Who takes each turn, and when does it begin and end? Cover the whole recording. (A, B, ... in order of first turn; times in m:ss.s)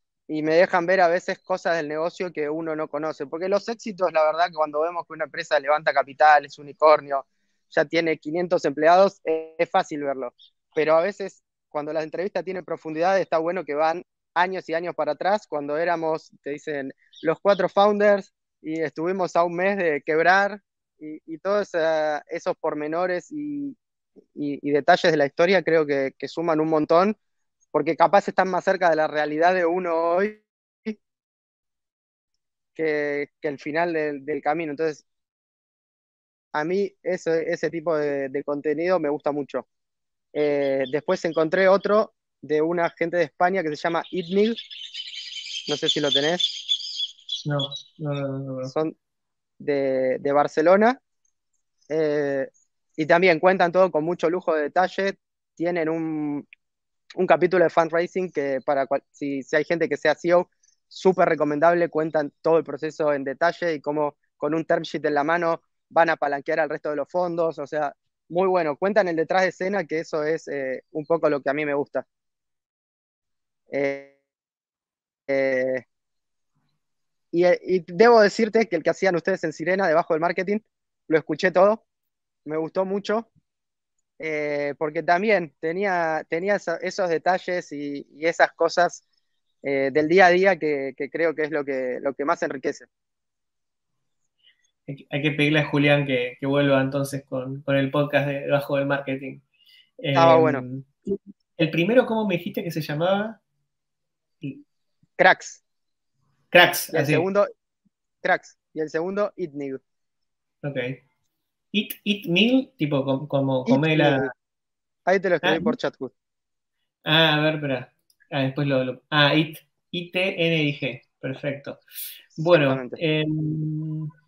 0:00.3-0:23.8 A
0:24.3-0:27.2 A
0:27.7-0:31.0 A
0:32.7-0:35.0 A
0:36.5-0:39.6 A
0:40.3-0:44.6 A
0:45.7-0:46.6 A
0:47.4-0:48.7 B
0:48.7-0:48.9 A
0:49.6-0:51.0 A
0:51.9-0:56.4 A
0:57.2-1:12.0 A
1:13.7-1:14.1 A
1:15.3-1:15.8 A
1:17.3-1:21.8 A
1:22.4-1:23.3 A
1:24.2-1:29.0 A
1:29.6-1:32.9 A
1:34.9-1:39.4 B
1:40.0-1:43.4 B
1:40.1-1:40.6 A
1:45.2-1:45.6 A
1:46.5-1:47.3 B
1:46.9-1:47.5 A
1:48.2-1:49.8 A
1:50.6-1:51.0 B
1:51.7-1:54.3 B
1:53.7-1:54.3 A
1:55.0-1:56.1 A
1:55.4-1:55.8 B
1:57.0-2:01.8 B
2:02.4-2:04.1 B
2:02.5-2:03.0 A